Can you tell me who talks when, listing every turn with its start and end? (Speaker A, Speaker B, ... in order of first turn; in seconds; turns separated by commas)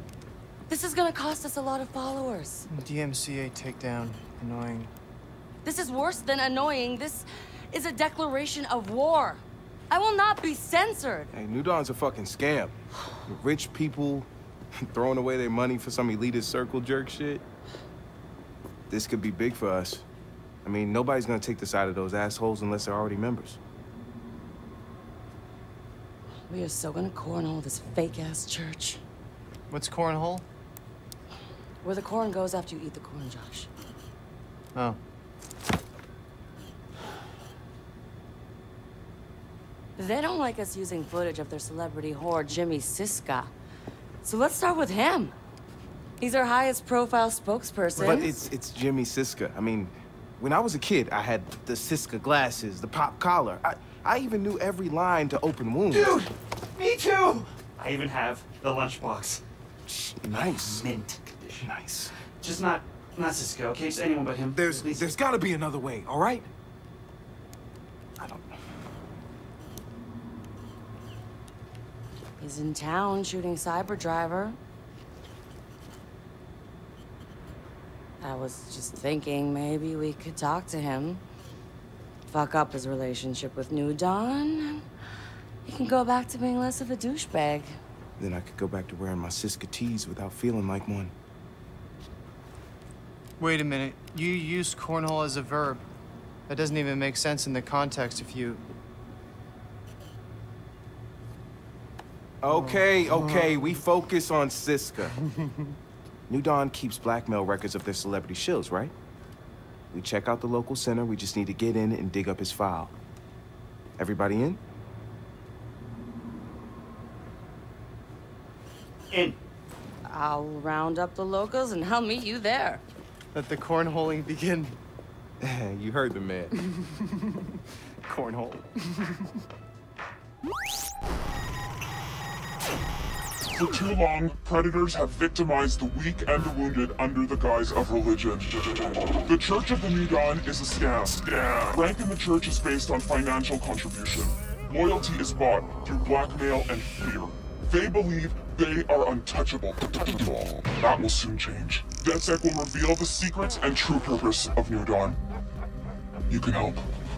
Speaker A: 0.7-2.7, Speaker B: 2.7-4.9, Speaker A: 5.7-11.3, Speaker C: 11.3-17.4, Speaker C: 18.9-20.1, Speaker C: 20.6-23.6, Speaker A: 26.5-29.0, Speaker B: 29.7-30.4, Speaker A: 31.8-33.7, Speaker A: 40.0-43.5, Speaker A: 44.2-45.4, Speaker A: 46.2-48.3, Speaker C: 48.0-56.1, Speaker D: 55.9-59.4, Speaker C: 60.2-60.9, Speaker D: 60.4-61.7, Speaker C: 61.6-62.1, Speaker D: 62.4-65.1, Speaker C: 64.5-66.5, Speaker C: 68.2-68.6, Speaker A: 72.4-74.6, Speaker A: 78.2-81.2, Speaker A: 82.3-84.8, Speaker A: 85.6-87.8, Speaker C: 88.2-91.1, Speaker B: 93.4-95.8, Speaker B: 96.5-98.6, Speaker C: 102.4-105.2, Speaker B: 102.5-102.9, Speaker C: 106.3-108.9, Speaker C: 109.9-113.0, Speaker C: 114.0-114.6, Speaker D: 119.1-119.4, Speaker A: 120.0-122.8, Speaker B: 123.3-124.8, Speaker C: 125.4-126.5, Speaker B: 128.1-128.7, Speaker E: 133.5-155.2, Speaker E: 156.3-156.8